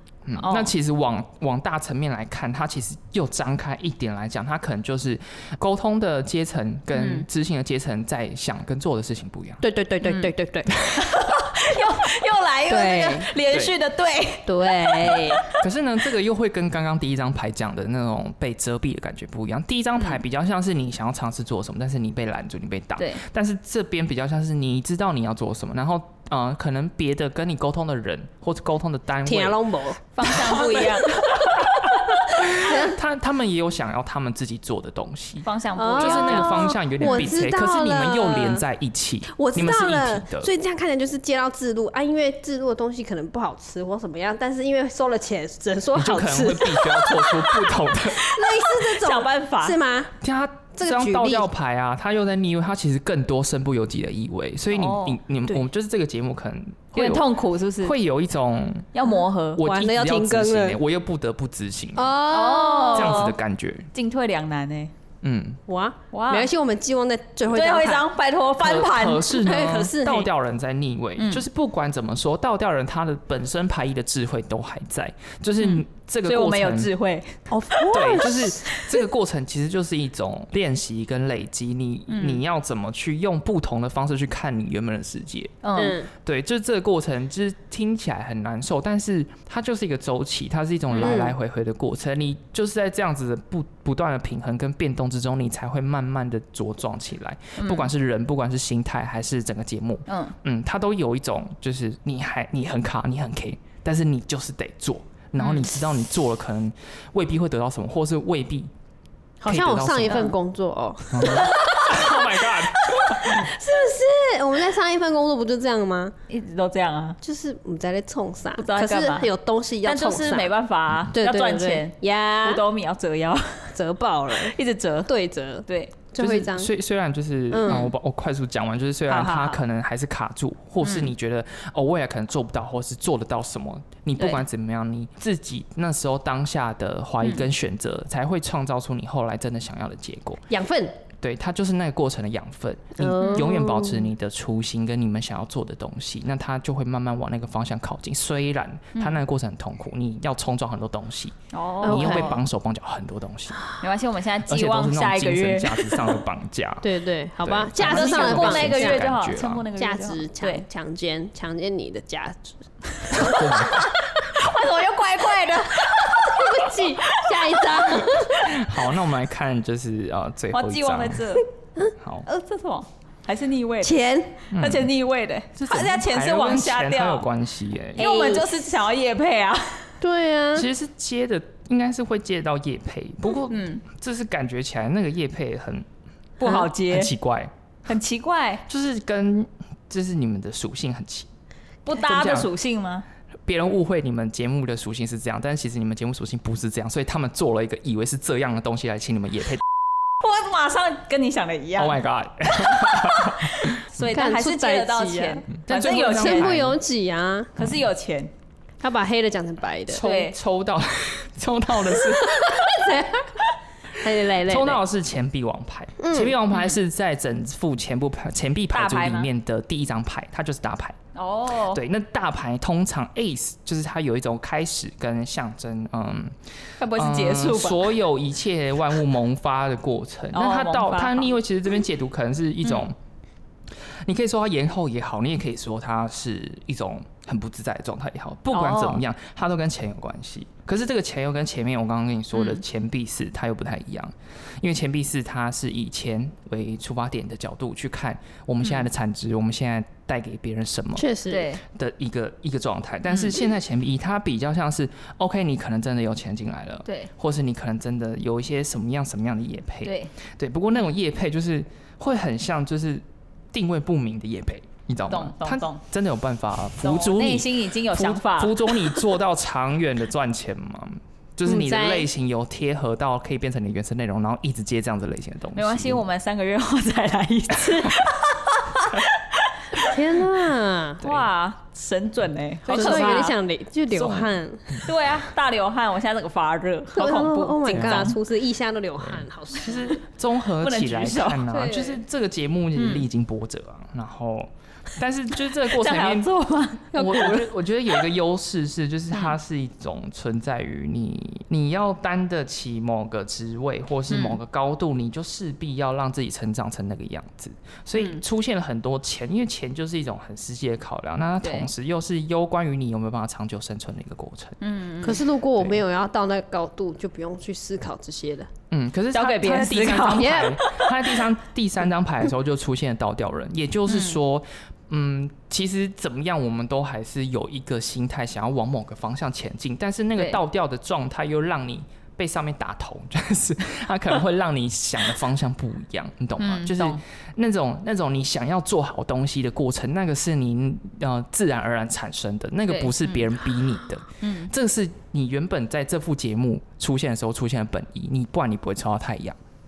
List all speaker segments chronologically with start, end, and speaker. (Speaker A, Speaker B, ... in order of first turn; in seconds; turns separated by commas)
Speaker A: 0.2-9.6, Speaker B: 0.4-0.7, Speaker B: 6.9-7.3, Speaker C: 9.6-10.7, Speaker B: 10.0-10.3, Speaker A: 10.7-11.0, Speaker B: 10.9-15.5, Speaker C: 12.7-13.3, Speaker A: 13.5-13.7, Speaker C: 14.4-15.4, Speaker A: 15.5-29.6, Speaker C: 29.2-33.0, Speaker B: 30.1-31.1, Speaker A: 30.3-40.5, Speaker B: 35.4-37.2, Speaker C: 35.8-38.6, Speaker C: 39.3-50.1, Speaker A: 45.9-48.2, Speaker B: 48.1-49.8, Speaker A: 50.2-57.3, Speaker C: 50.8-51.5, Speaker B: 54.7-55.2, Speaker B: 56.9-58.0, Speaker A: 57.8-59.0, Speaker B: 58.9-59.6, Speaker A: 59.5-62.1, Speaker C: 59.6-60.8, Speaker C: 61.9-63.3, Speaker B: 62.3-63.3, Speaker A: 62.9-63.9, Speaker B: 63.9-64.9, Speaker A: 65.2-65.6, Speaker C: 65.7-68.0, Speaker B: 66.1-66.5, Speaker B: 67.5-69.7, Speaker A: 68.6-76.9, Speaker C: 69.4-70.3, Speaker B: 71.2-71.4, Speaker B: 75.6-77.9, Speaker C: 77.5-78.6, Speaker A: 77.9-85.5, Speaker B: 82.1-82.4, Speaker B: 85.6-86.0, Speaker C: 85.7-86.1, Speaker A: 86.2-108.7, Speaker B: 90.9-91.2, Speaker C: 91.0-91.3, Speaker B: 97.5-97.9, Speaker B: 100.1-100.3, Speaker B: 105.4-105.7, Speaker C: 109.4-116.1, Speaker A: 109.4-110.3, Speaker B: 110.1-110.3, Speaker A: 111.1-113.5, Speaker B: 111.4-112.0, Speaker B: 116.3-117.2, Speaker C: 117.2-120.5, Speaker B: 118.5-119.3, Speaker B: 119.8-123.7, Speaker C: 121.1-122.6, Speaker C: 123.7-126.7, Speaker B: 124.3-125.1, Speaker B: 125.7-126.0, Speaker A: 126.2-140.4, Speaker C: 127.5-127.9, Speaker B: 127.7-127.9, Speaker B: 129.1-129.6, Speaker B: 130.8-131.1, Speaker B: 134.2-134.4, Speaker B: 137.2-137.5, Speaker C: 140.5-141.0, Speaker A: 141.2-153.6, Speaker C: 143.0-144.1, Speaker B: 143.2-143.5, Speaker B: 148.9-149.2, Speaker B: 151.5-152.4, Speaker C: 151.8-152.4, Speaker B: 153.8-156.2, Speaker A: 154.4-159.7, Speaker C: 156.8-159.0, Speaker B: 157.8-160.6, Speaker C: 159.7-162.6, Speaker B: 163.0-168.0, Speaker C: 163.1-163.9, Speaker A: 163.1-163.9, Speaker C: 165.9-168.6, Speaker A: 167.9-171.4, Speaker B: 170.5-171.4, Speaker A: 172.0-172.2, Speaker B: 172.2-174.0, Speaker C: 173.8-174.4, Speaker A: 174.5-174.9, Speaker B: 174.5-177.3, Speaker A: 175.6-178.3, Speaker B: 178.0-179.9, Speaker C: 178.0-178.5, Speaker C: 180.0-180.7, Speaker A: 180.5-185.8, Speaker B: 183.5-183.8, Speaker B: 186.4-187.1, Speaker A: 186.5-187.5, Speaker B: 187.8-188.6, Speaker A: 188.7-191.3, Speaker B: 191.8-193.0, Speaker A: 191.9-192.5, Speaker A: 193.4-199.6, Speaker B: 200.2-202.0, Speaker A: 201.8-203.8, Speaker B: 202.7-206.5, Speaker C: 204.0-207.6, Speaker A: 205.7-206.8, Speaker B: 207.6-208.3, Speaker C: 208.8-210.1, Speaker A: 209.9-212.6, Speaker B: 209.9-210.3, Speaker C: 211.9-213.4, Speaker C: 214.0-214.8, Speaker A: 214.4-221.0, Speaker C: 216.0-216.3, Speaker B: 218.7-219.3, Speaker B: 221.1-221.8, Speaker A: 221.7-232.9, Speaker B: 226.8-227.9, Speaker B: 230.3-231.3, Speaker A: 234.0-251.0, Speaker B: 238.5-239.0, Speaker B: 242.3-242.6, Speaker C: 250.9-251.5, Speaker B: 251.3-251.6, Speaker A: 251.7-276.0, Speaker B: 259.8-260.1, Speaker B: 265.1-265.8, Speaker B: 266.8-269.0, Speaker C: 271.5-272.1, Speaker B: 275.5-279.9, Speaker C: 279.8-281.0, Speaker B: 281.0-283.4, Speaker C: 282.7-284.8, Speaker A: 282.7-283.3, Speaker B: 284.0-284.2, Speaker B: 284.8-288.2, Speaker C: 286.9-289.9, Speaker A: 287.7-288.2, Speaker A: 289.0-296.3, Speaker B: 290.6-291.7, Speaker C: 291.5-292.0, Speaker B: 292.8-293.0, Speaker B: 295.6-297.0, Speaker A: 296.9-314.6, Speaker C: 296.9-297.5, Speaker B: 304.1-304.4, Speaker B: 308.0-308.2, Speaker B: 311.4-311.7, Speaker B: 314.6-315.2, Speaker C: 315.0-318.5, Speaker A: 315.6-315.8, Speaker A: 318.7-349.4, Speaker B: 319.1-320.6, Speaker C: 320.0-320.5, Speaker B: 323.9-324.2, Speaker B: 336.4-337.0, Speaker B: 342.7-343.4, Speaker B: 344.2-344.5